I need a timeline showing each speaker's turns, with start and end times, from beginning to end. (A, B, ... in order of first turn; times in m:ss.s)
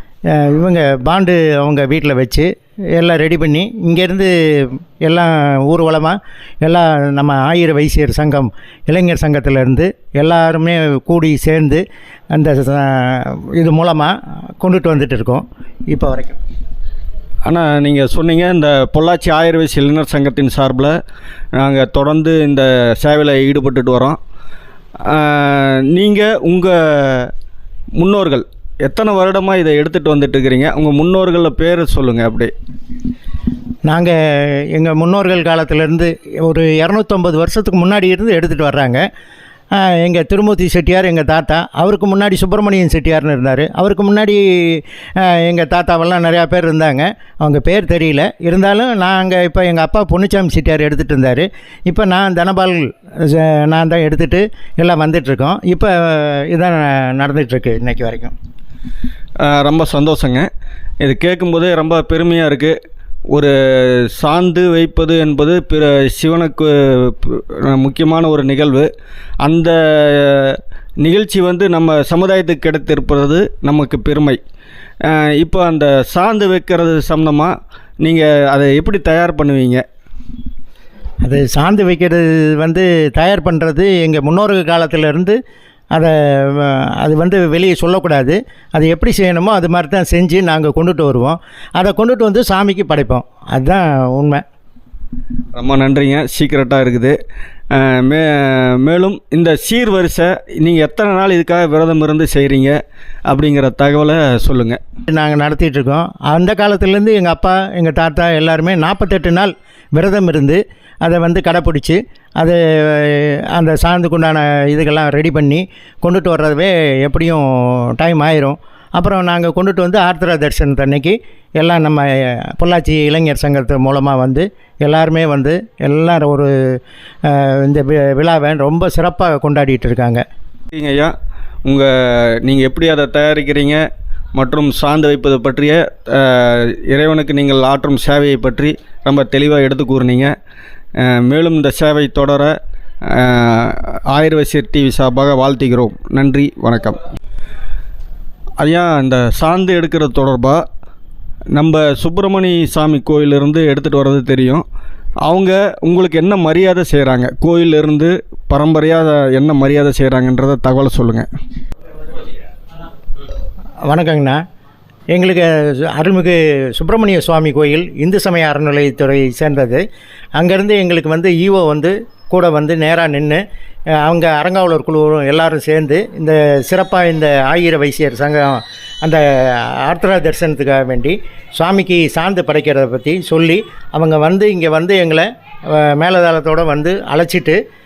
0:00.3-0:16.4 A
0:17.5-0:21.0 B
0:21.6-0:24.2 B
0:25.0-0:27.3 B
0:28.0-0:32.5 B
0:33.8-0:39.0 A
0:39.8-0:58.3 A
0:59.4-1:00.5 B
1:01.0-1:02.8 B
1:03.3-1:08.9 B
1:09.4-1:14.4 B
1:15.1-1:19.8 B
1:21.2-1:25.4 A
1:25.9-1:34.4 A
1:35.6-1:37.2 B
1:37.7-1:44.8 B
1:45.1-2:10.2 A
2:10.7-2:11.1 B
2:11.6-2:13.8 B
2:14.4-2:20.3 B
2:21.0-2:22.5 B
2:23.1-2:27.0 B
2:28.6-2:30.6 B
2:31.5-2:34.6 B
2:35.2-2:41.3 B
2:43.9-2:44.4 A
2:45.1-2:49.8 A
2:50.4-2:53.4 A
2:54.0-3:07.6 A